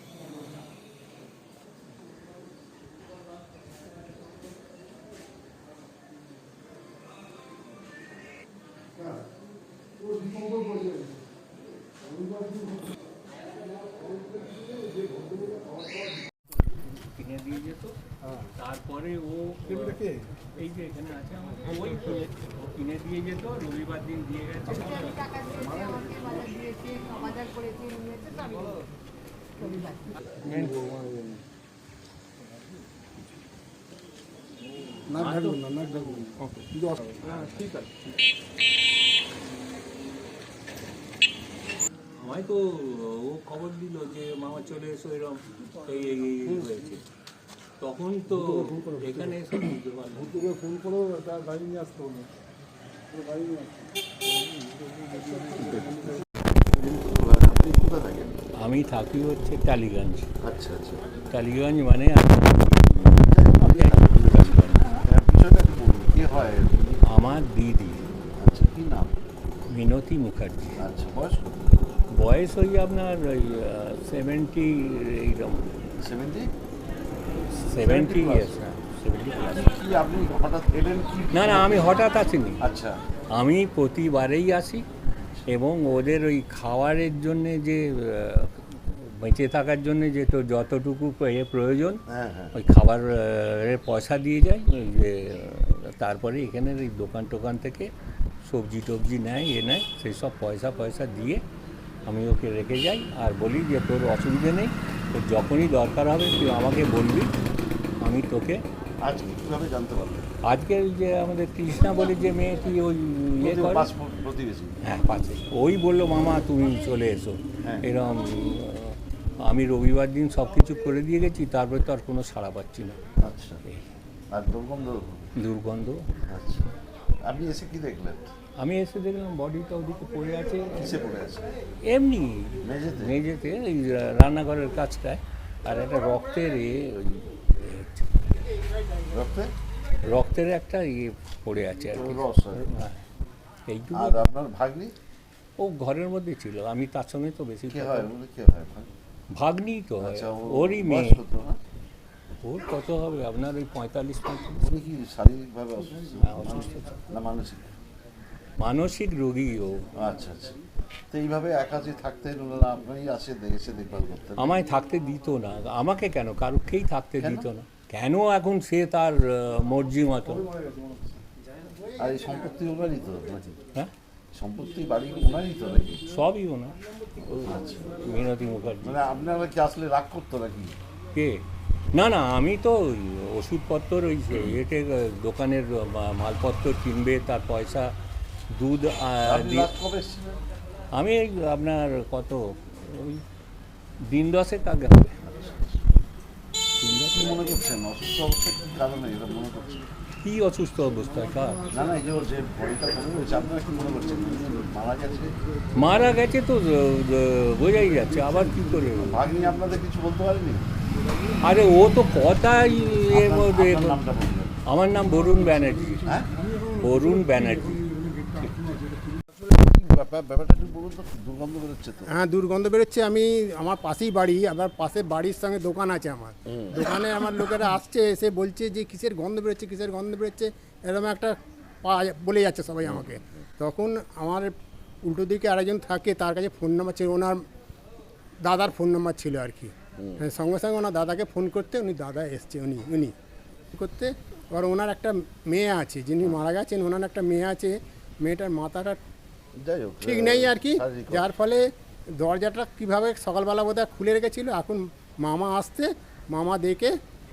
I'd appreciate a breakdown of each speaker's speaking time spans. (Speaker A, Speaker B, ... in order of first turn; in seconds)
Speaker A: 16.9-26.0, 30.4-30.8, 35.1-35.5, 37.2-37.9, 42.2-47.0, 47.8-50.5, 58.5-60.3, 61.3-65.0, 67.0-68.0, 69.7-70.8, 72.1-75.7, 77.6-79.7, 81.3-82.6, 83.3-84.8, 85.5-92.0, 92.5-97.9, 98.4-101.4, 102.0-107.3, 108.0-108.6, 110.4-113.9, 114.8-123.0, 125.3-126.1, 128.6-131.0, 131.8-138.3, 140.0-143.0, 143.7-144.2, 145.6-148.1, 149.3-151.2, 152.4-154.7, 156.2-157.0, 158.6-159.9, 164.4-170.5, 176.1-176.8, 177.3-178.9, 181.1-187.9, 188.5-189.7, 190.9-193.2, 194.0-195.2, 196.8-197.3, 200.2-201.6, 205.7-209.2, 211.4-214.0, 214.7-216.1, 216.7-217.8
Speaker B: 26.5-28.7
Speaker C: 30.9-31.2, 50.6-52.3, 53.3-53.6
Speaker D: 35.3-35.8, 222.2-234.5, 235.1-237.4, 238.4-243.1, 243.7-249.0, 250.0-256.9
Speaker E: 55.7-56.0, 56.6-58.4, 60.4-61.0, 62.9-67.0, 68.4-69.2, 70.8-71.7, 76.0-76.5, 77.6-78.5, 79.4-82.0, 82.6-83.0, 92.1-92.5, 109.0-110.3, 113.4-114.8, 117.6-117.8, 123.2-123.6, 124.3-125.3, 126.2-126.6, 127.2-128.3, 130.8-131.5, 132.6-133.2, 139.1-139.5, 141.9-142.7, 143.9-144.9, 147.7-148.9, 150.0-151.6, 154.6-157.7, 159.9-160.6, 161.1-164.6, 167.2-167.5, 171.9-173.6, 174.3-176.1, 177.2-177.9, 178.8-180.8, 189.2-190.4, 195.2-195.8, 197.1-199.8, 201.7-205.3, 209.0-210.7, 213.1-214.6, 216.0-216.3, 219.3-222.1, 226.5-226.9, 232.8-233.3, 240.0-240.2, 249.6-251.3